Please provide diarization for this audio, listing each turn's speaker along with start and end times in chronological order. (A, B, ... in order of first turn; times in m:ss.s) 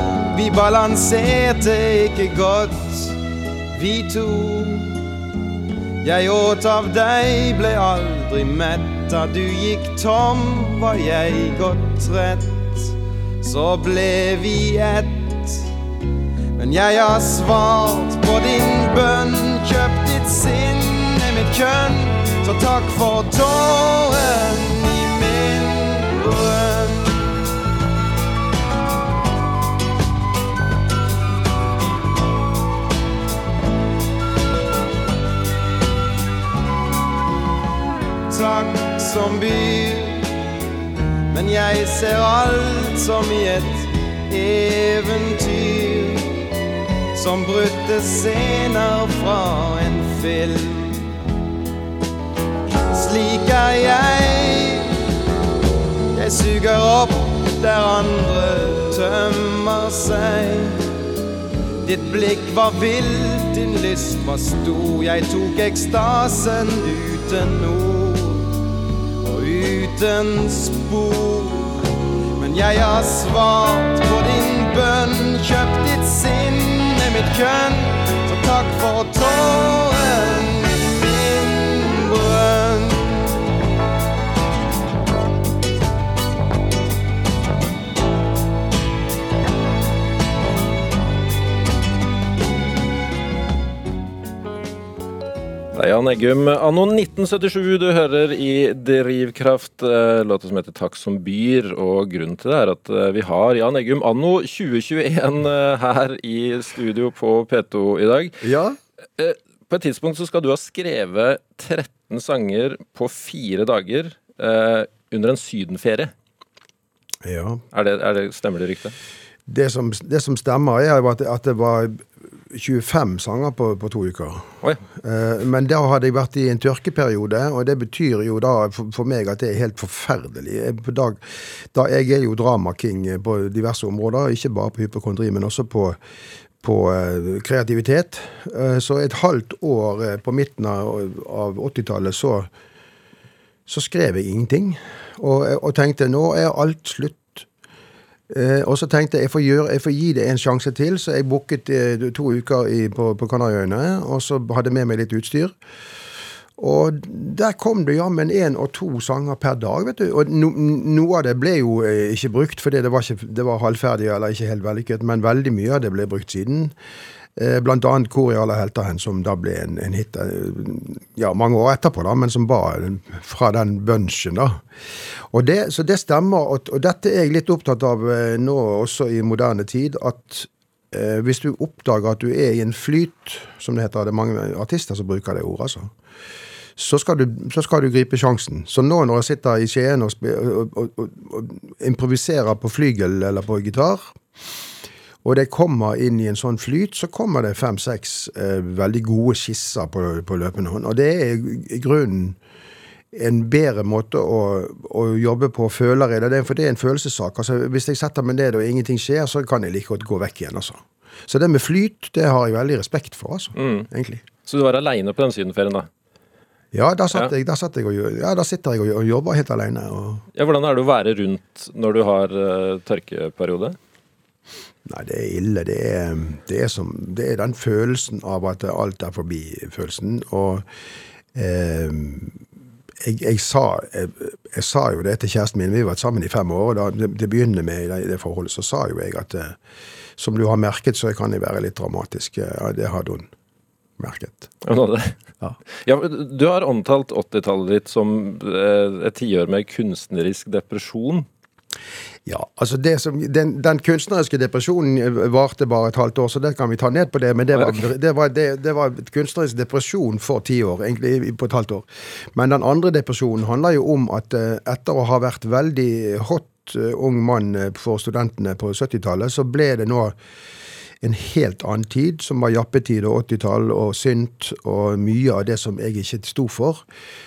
0:00.3-0:02.8 A
0:03.8-0:04.9 A
0:06.0-0:12.7 A
0:13.4-0:15.4 A
0:16.6-0:27.1 A
0:38.3-0:40.3 A
0:41.3-0:46.2 A
0:47.2-0:51.0 A
0:52.9-0:54.9 A
0:56.1-1:00.7 A
1:01.8-1:08.5 A
1:09.2-1:11.7 A
1:12.4-1:23.2 A
1:35.7-1:48.4 B
1:48.4-1:48.8 C
1:49.2-1:56.1 B
1:57.2-1:57.6 C
1:57.7-1:58.9 B
1:59.5-2:11.2 C
2:11.7-2:16.0 C
2:16.6-2:22.5 C
2:23.7-2:27.4 C
2:28.3-2:35.5 C
2:36.6-2:46.7 C
2:47.4-2:54.6 C
2:55.3-3:05.9 C
3:06.8-3:14.1 C
3:15.2-3:22.4 C
3:23.1-3:34.2 C
3:33.6-3:33.9 B
3:34.4-3:35.9 B
3:36.7-3:40.2 C
3:40.3-3:43.8 B
3:44.8-3:50.6 C
3:51.3-3:52.4 C
3:53.0-3:59.6 C
4:00.2-4:03.3 C
4:04.0-4:04.5 C
4:04.6-4:05.1 B
4:05.8-4:11.3 B
4:12.2-4:30.1 C
4:31.0-4:36.8 C